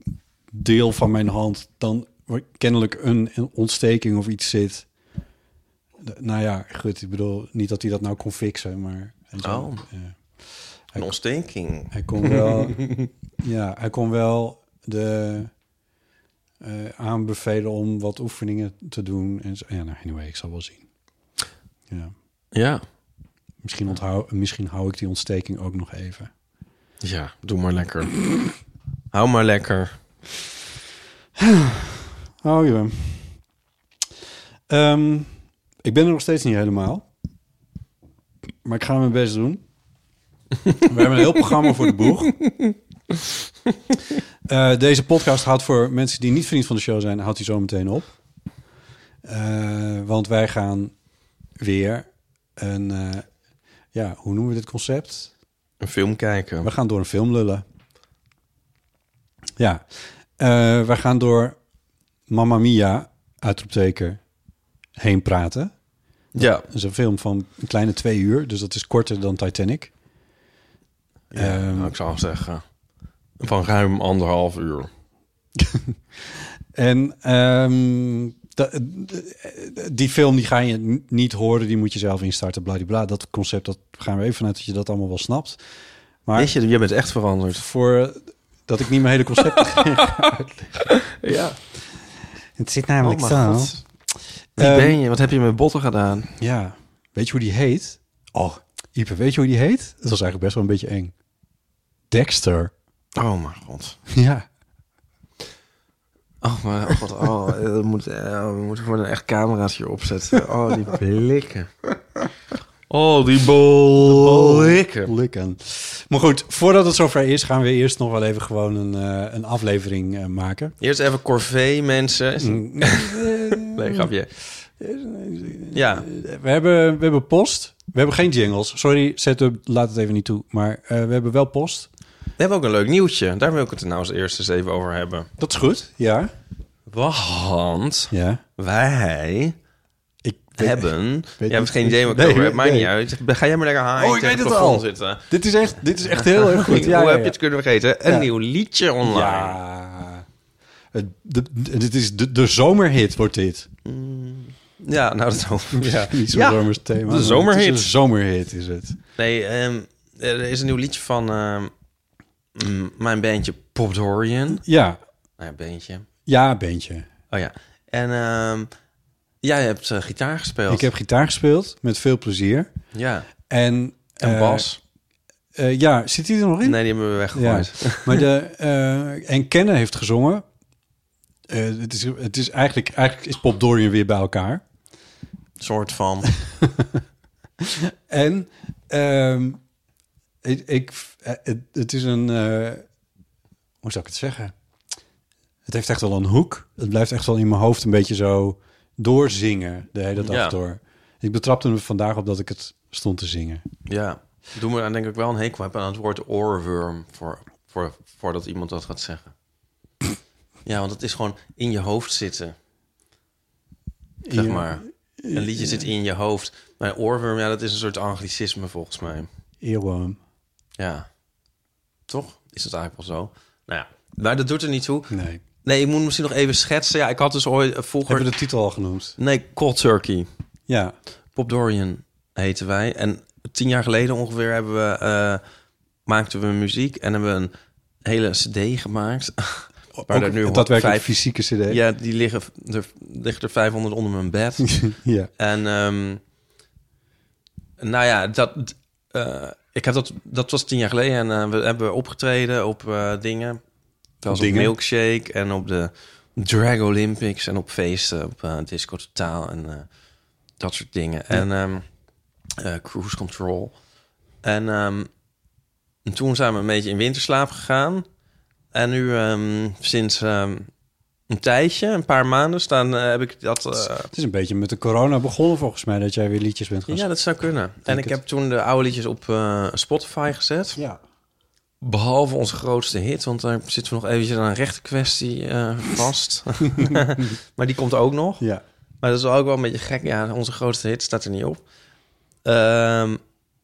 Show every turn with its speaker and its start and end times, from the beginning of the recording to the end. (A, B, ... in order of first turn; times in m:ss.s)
0:00.5-0:04.8 A
0:06.0-0:10.2 A
0:09.4-0:09.8 B
0:11.0-0:13.1 B
0:11.9-0:15.5 A
0:16.6-0:20.8 A
0:21.9-0:22.1 A
0:22.5-0:22.8 B
0:23.6-0:26.3 A
0:27.0-0:28.2 B
0:29.1-0:29.9 B
0:31.4-0:33.4 A
0:34.7-0:35.3 A
0:35.8-0:37.1 A
0:38.6-0:39.6 A
0:40.8-0:42.4 A
0:44.5-0:48.1 A
0:49.2-0:50.9 A
0:51.6-0:53.3 A
0:53.9-0:55.3 A
0:55.8-0:56.7 B
0:56.6-0:57.6 A
0:59.6-1:01.6 A
1:02.3-1:04.2 A
1:05.0-1:05.7 A
1:06.3-1:06.6 B
1:06.4-1:09.9 A
1:11.3-1:12.6 B
1:11.3-1:11.9 A
1:13.4-1:14.9 B
1:15.6-1:25.6 A
1:26.2-1:26.5 A
1:26.3-1:27.6 B
1:27.5-1:30.8 A
1:29.6-1:30.2 B
1:30.9-1:31.6 B
1:32.6-1:33.8 A
1:33.0-1:33.8 B
1:34.6-1:36.3 B
1:34.6-1:35.0 A
1:36.4-1:41.1 A
1:42.1-1:42.7 A
1:43.2-1:44.0 B
1:44.1-1:44.4 A
1:46.4-1:51.7 B
1:52.9-1:55.1 B
1:54.0-2:00.8 A
2:00.8-2:04.3 B
2:02.4-2:11.9 A
2:05.7-2:06.1 B
2:12.4-2:15.3 B
2:15.4-2:16.3 A
2:16.9-2:19.6 B
2:18.1-2:18.4 A
2:20.2-2:22.9 A
2:20.6-2:25.3 B
2:24.0-2:27.4 A
2:26.2-2:29.6 B
2:29.0-2:30.2 A
2:30.9-2:33.7 A
2:33.8-2:37.9 B
2:35.7-2:39.0 A
2:39.2-2:41.7 B
2:42.5-2:44.6 B
2:44.6-2:45.0 A
2:45.4-2:46.0 B
2:46.2-2:47.1 A
2:47.3-2:48.7 B
2:49.4-2:50.9 B
2:50.7-2:52.7 A
2:52.9-2:53.3 B
2:53.5-2:54.7 A
2:54.2-2:54.8 B
2:55.5-2:56.8 A
2:56.6-2:58.2 B
2:57.3-3:00.4 A
3:01.5-3:04.6 A
3:05.6-3:06.3 B
3:06.6-3:07.0 A
3:07.6-3:09.6 A
3:10.4-3:12.8 A
3:13.8-3:14.5 A
3:15.6-3:23.6 A
3:20.2-3:20.5 B
3:23.9-3:29.3 B
3:30.6-3:32.5 B
3:34.2-3:35.9 A
3:34.3-3:39.3 B
3:39.6-3:40.2 A
3:40.8-3:41.1 B
3:42.1-3:45.1 B
3:45.1-3:45.4 A
3:45.6-3:48.3 B
3:48.1-3:49.2 A
3:49.2-3:50.3 B
3:50.7-3:50.9 A
3:51.4-3:55.4 B
3:56.0-3:57.5 B
3:58.0-4:01.1 B
4:00.0-4:01.8 A
4:01.7-4:04.9 B
4:04.7-4:05.3 A
4:05.4-4:06.2 B
4:07.8-4:13.6 B
4:14.2-4:19.8 B
4:14.3-4:14.7 A
4:20.6-4:21.8 B
4:22.6-4:23.7 B
4:24.4-4:25.1 B
4:26.0-4:28.0 B
4:28.7-4:30.7 B
4:31.3-4:34.1 B
4:34.1-4:37.1 A
4:36.9-4:40.8 B
4:37.8-4:38.2 A
4:40.7-4:41.0 A
4:41.8-4:48.4 B
4:49.0-4:51.6 B
4:52.4-4:53.2 B